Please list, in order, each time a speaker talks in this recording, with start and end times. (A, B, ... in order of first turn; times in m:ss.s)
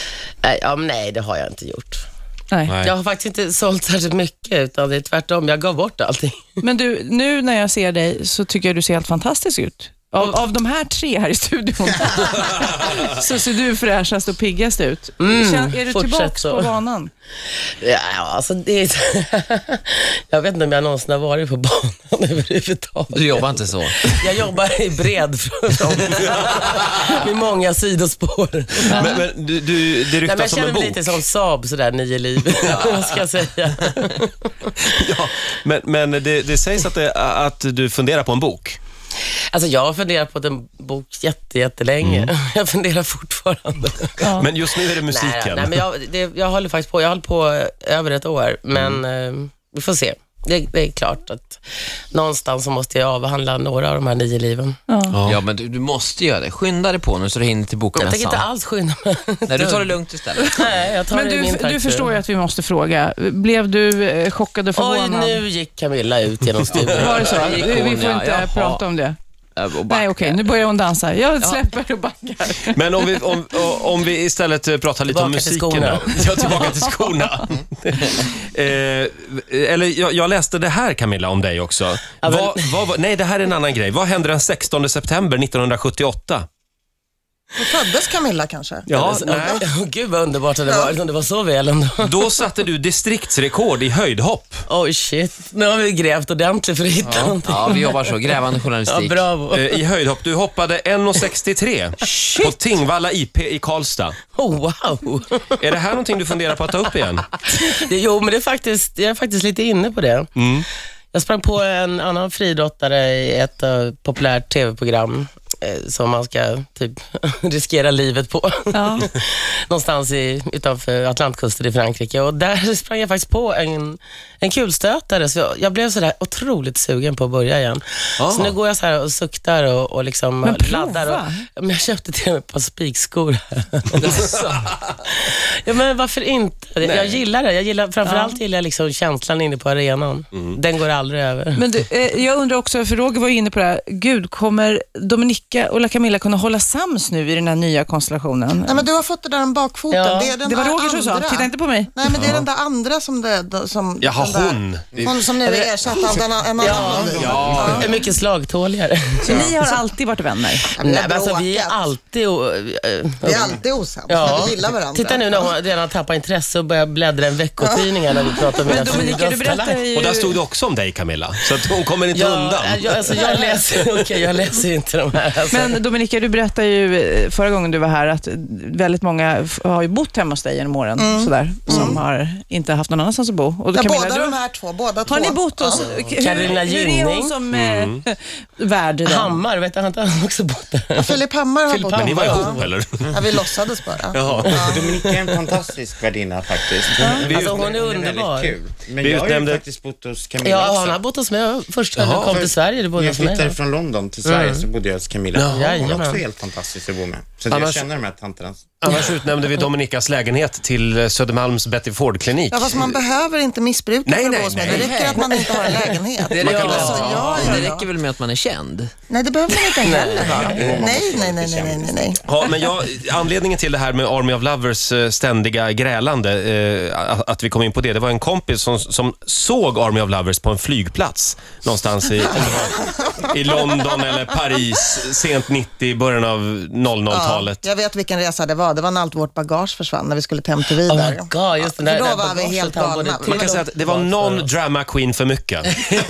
0:00.4-0:02.0 A
0:02.8-0:06.6 A
0:06.6-0:17.1 B
0:15.2-0:16.7 A
0:17.6-0:23.5 A
0:23.1-0:24.1 C
0:24.0-0:29.2 A
0:28.8-0:31.2 D
0:30.2-0:34.4 A
0:34.8-0:38.8 D
0:39.5-0:44.3 A
0:42.0-0:42.3 D
0:44.2-0:44.5 B
0:44.3-0:45.8 D
0:45.0-0:54.8 A
0:54.9-0:55.2 B
0:55.1-0:55.4 D
0:55.2-0:58.4 C
0:57.9-1:00.0 A
0:59.5-1:00.9 C
1:00.5-1:02.1 A
1:01.1-1:05.4 B
1:04.7-1:07.4 A
1:06.8-1:08.9 C
1:06.9-1:09.2 B
1:09.6-1:10.7 C
1:09.9-1:12.8 B
1:11.4-1:11.7 C
1:12.7-1:26.5 D
1:15.1-1:16.2 A
1:16.8-1:17.1 B
1:22.2-1:22.7 A
1:27.6-1:29.6 E
1:28.9-1:29.6 D
1:28.9-1:32.1 A
1:30.6-1:30.9 E
1:32.0-1:34.6 D
1:34.7-1:38.3 A
1:37.0-1:37.4 D
1:37.4-1:39.3 C
1:38.8-1:39.8 A
1:39.5-1:44.2 D
1:44.3-1:45.6 A
1:45.6-1:47.3 D
1:47.5-1:50.3 A
1:50.4-1:50.6 D
1:51.1-2:14.4 A
1:58.7-1:59.1 B
2:08.2-2:08.5 D
2:10.4-2:11.4 B
2:15.0-2:21.6 A
2:16.8-2:17.2 D
2:18.0-2:18.4 B
2:21.5-2:28.7 B
2:28.6-2:37.9 E
2:29.9-2:30.4 A
2:30.5-2:31.9 B
2:30.6-2:31.3 C
2:32.1-2:32.4 D
2:34.0-2:35.2 D
2:34.9-2:35.2 F
2:36.6-2:39.5 A
2:36.6-2:37.1 F
2:36.9-2:38.0 D
2:37.3-2:37.7 C
2:39.2-2:39.7 E
2:39.3-2:40.4 C
2:39.4-2:40.6 B
2:40.7-2:41.8 E
2:40.8-2:49.8 A
2:43.2-2:45.5 E
2:47.6-2:48.3 E
2:48.7-2:50.4 B
2:49.9-2:53.4 D
2:52.1-2:55.7 A
2:55.5-3:04.2 B
2:55.6-2:56.0 C
3:01.0-3:02.0 E
3:01.0-3:04.3 C
3:03.7-3:06.0 E
3:05.1-3:05.9 C
3:05.4-3:09.4 B
3:06.2-3:07.4 A
3:07.5-3:08.0 D
3:09.0-3:11.2 A
3:11.0-3:14.8 E
3:11.7-3:12.7 A
3:11.9-3:13.3 D
3:14.1-3:14.7 D
3:14.3-3:21.0 F
3:14.6-3:15.3 A
3:17.1-3:17.8 D
3:17.1-3:18.5 A
3:19.0-3:19.6 D
3:20.4-3:23.6 A
3:22.0-3:22.5 D
3:22.3-3:28.9 F
3:24.2-3:24.6 A
3:25.3-3:25.9 D
3:25.5-3:26.2 A
3:27.5-3:27.9 D
3:28.8-3:32.9 D
3:32.5-3:37.9 E
3:34.0-3:35.2 D
3:34.7-3:35.4 C
3:36.3-3:38.9 C
3:36.4-3:37.6 D
3:39.1-3:42.2 E
3:39.8-3:40.9 A
3:40.2-3:42.4 F
3:42.2-3:57.6 D
3:52.4-3:53.9 E
3:57.1-4:03.6 E
4:00.8-4:04.5 A
4:03.2-4:05.7 D